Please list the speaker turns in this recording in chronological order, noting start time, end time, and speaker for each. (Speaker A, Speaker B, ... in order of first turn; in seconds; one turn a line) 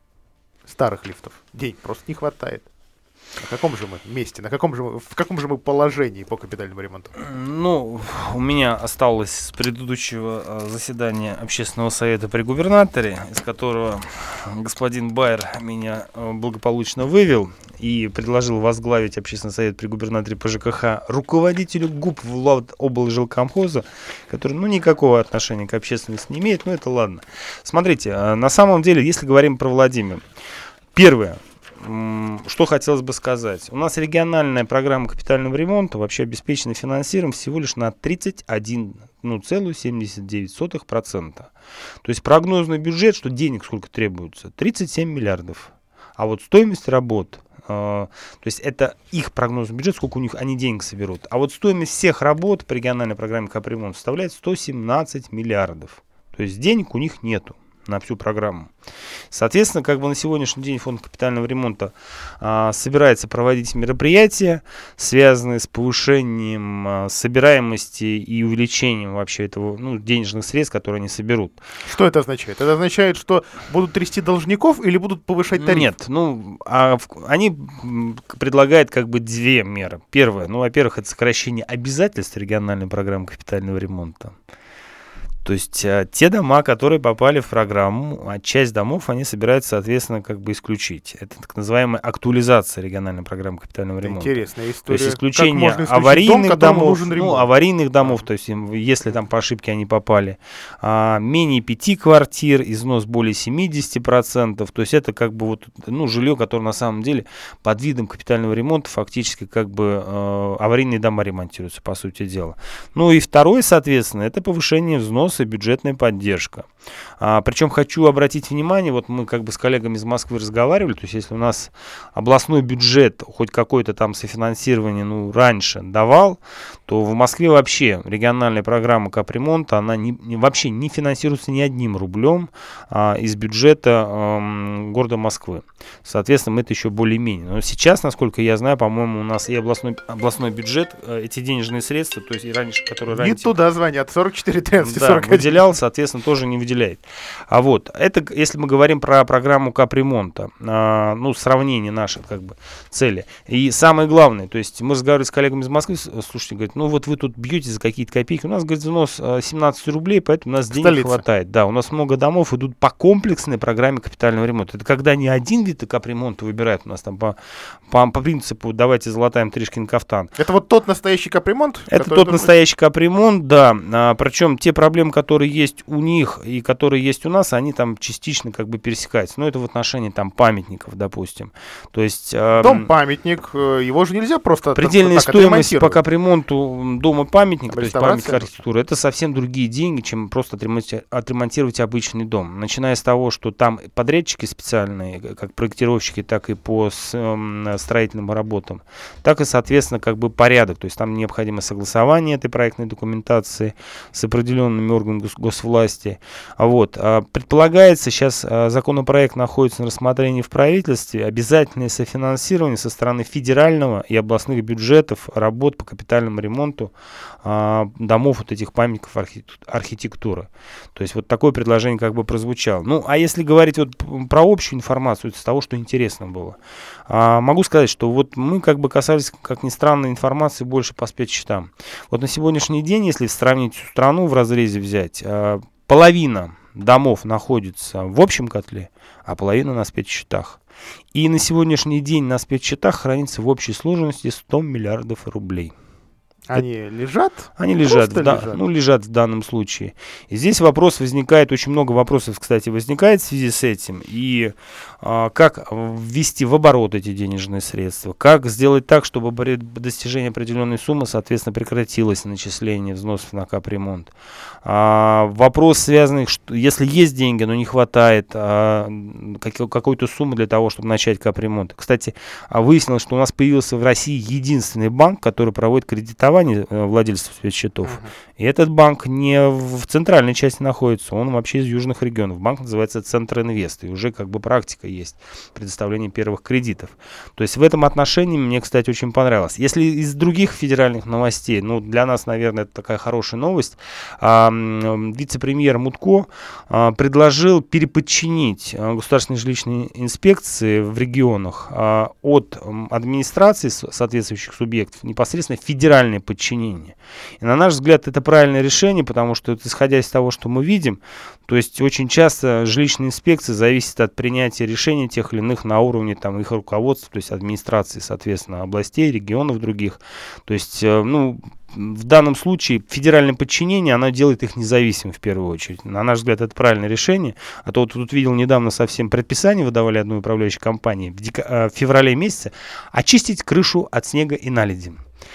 Speaker A: 0.7-2.7
Speaker A: 3.4-7.1
Speaker B: 7.2-30.2
Speaker B: 30.9-41.5
Speaker B: 42.0-58.7
Speaker B: 59.3-71.6
Speaker A: 71.8-75.9
Speaker B: 75.5-84.3
Speaker B: 85.4-116.7
Speaker A: 94.0-97.5
Speaker B: 117.2-143.5
Speaker A: 143.1-145.7
Speaker B: 144.8-167.4
Speaker A: 160.7-161.2
Speaker B: 167.9-170.3
Speaker A: 170.4-172.5
Speaker B: 171.9-182.9
Speaker A: 182.6-186.0
Speaker B: 184.8-226.6
Speaker A: 187.7-188.5
Speaker B: 227.1-240.6
Speaker B: 241.1-245.7
Speaker A: 246.5-248.6
Speaker B: 247.6-264.1
Speaker B: 264.6-335.0
Speaker A: 277.8-278.1